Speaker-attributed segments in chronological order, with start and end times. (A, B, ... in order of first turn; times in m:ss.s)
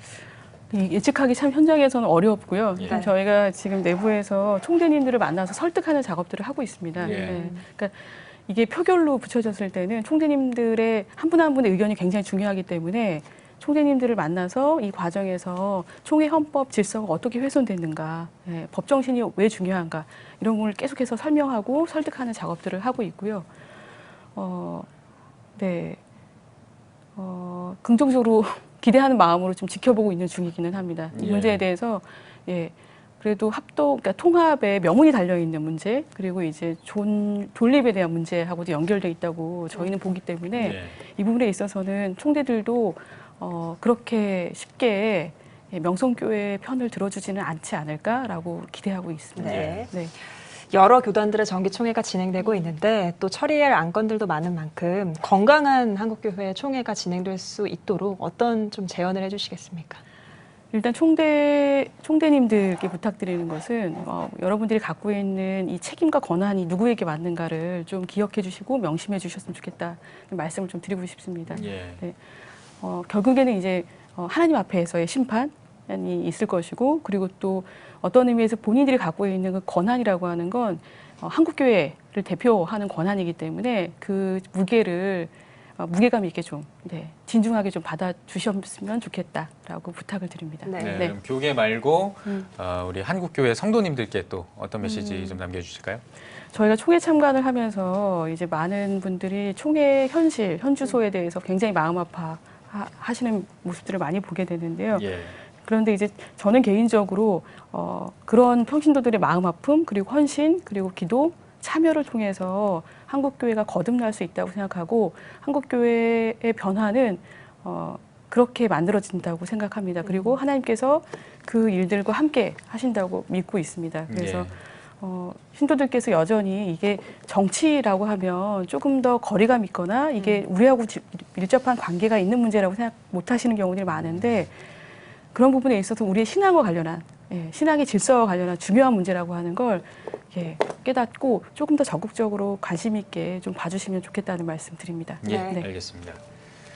0:00.7-0:23.5 A
0:02.8-0:03.1 B
0:07.0-0:07.4 C
0:07.0-0:07.6 B
0:24.4-0:24.9 A
0:25.6-0:26.0 A
0:27.2-0:50.1 A
0:31.1-0:31.6 C
0:40.5-0:41.0 C
0:49.4-0:49.9 B
0:49.4-0:49.9 C
0:50.6-1:00.0 B
1:00.7-1:12.2 A
1:11.5-1:12.0 C
1:12.8-1:31.2 A
1:30.6-1:31.0 B
1:30.8-1:36.0 C
1:34.8-1:35.4 A
1:36.5-2:14.5 A
1:44.9-1:45.4 C
2:00.0-2:00.4 B
2:04.1-2:04.5 C
2:10.2-2:10.4 B
2:13.9-2:14.4 C
2:15.3-2:25.7 A
2:25.2-2:26.2 C
2:25.2-2:25.6 B